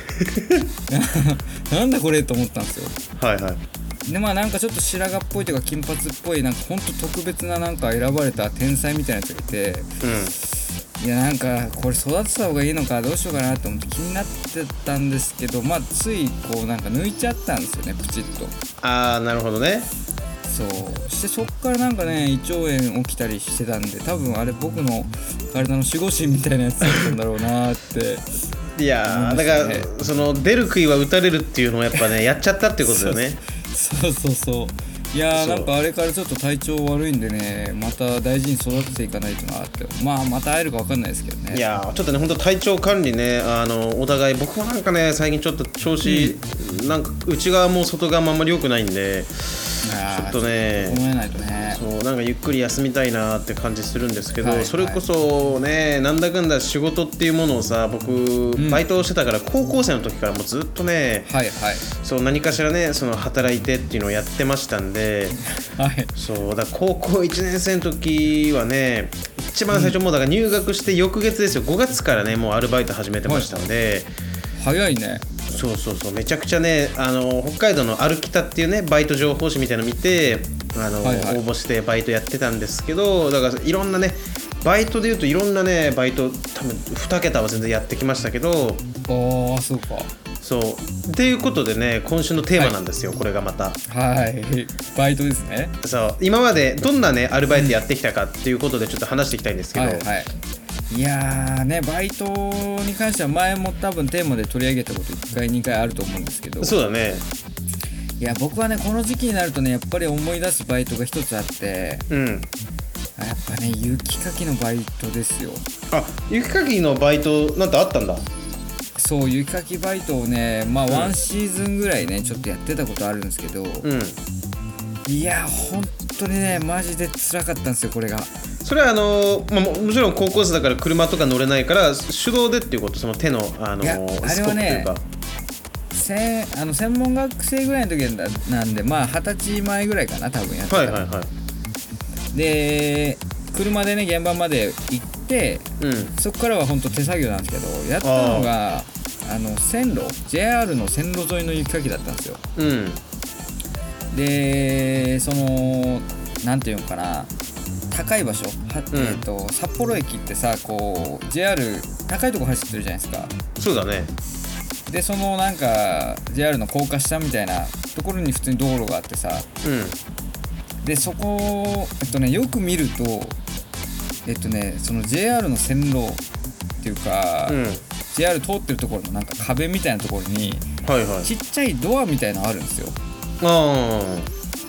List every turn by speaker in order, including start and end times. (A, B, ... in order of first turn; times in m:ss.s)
0:00.2-0:00.6 A
0:00.9-0:03.0 B
0:03.2-0:03.6 A
0:04.0-0:10.0 B
0:10.0-0:10.3 A
0:11.0-0:18.6 B
0:18.8-0:19.9 A
0:20.4-0:28.3 B
0:28.8-0:33.4 A
0:29.1-0:29.9 B
0:32.8-0:41.6 B
0:35.3-0:35.7 A
0:41.5-0:51.0 A
0:46.0-0:46.4 B
0:49.8-0:51.8 B
0:51.6-1:01.3 A
0:54.4-0:55.0 B
0:58.6-0:58.8 B
1:01.2-1:01.9 B
1:01.9-1:05.4 A
1:05.4-1:06.1 B
1:06.2-1:14.1 A
1:09.7-1:10.0 B
1:13.2-1:13.7 B
1:14.6-1:15.2 B
1:15.5-1:28.8 A
1:21.0-1:21.4 B
1:29.1-1:30.1 B
1:30.4-1:33.8 A
1:33.9-1:35.7 B
1:35.8-1:40.0 A
1:37.5-1:37.8 B
1:39.7-1:40.3 B
1:40.9-1:46.8 B
1:46.6-1:47.2 A
1:48.2-1:52.0 B
1:52.1-1:52.5 A
1:53.2-1:55.6 B
1:55.9-1:58.2 A
1:59.0-2:03.9 B
2:03.8-2:04.2 A
2:05.0-2:08.3 B
2:08.6-2:15.0 A
2:13.8-2:14.9 B
2:15.9-2:21.0 B
2:20.7-2:21.3 A
2:22.3-2:32.4 B
2:25.8-2:26.1 A
2:28.0-2:28.5 A
2:32.6-2:33.0 A
2:34.1-2:37.3 B
2:37.9-2:43.3 B
2:38.9-2:39.2 A
2:43.6-2:44.1 A
2:44.9-2:49.4 B
2:49.6-2:50.0 A
2:50.8-2:53.4 B
2:54.2-2:56.2 B
2:56.8-2:57.6 B
2:57.5-2:57.8 A
2:58.1-3:00.7 B
3:00.8-3:01.3 A
3:01.2-3:03.0 B
3:03.4-3:04.3 A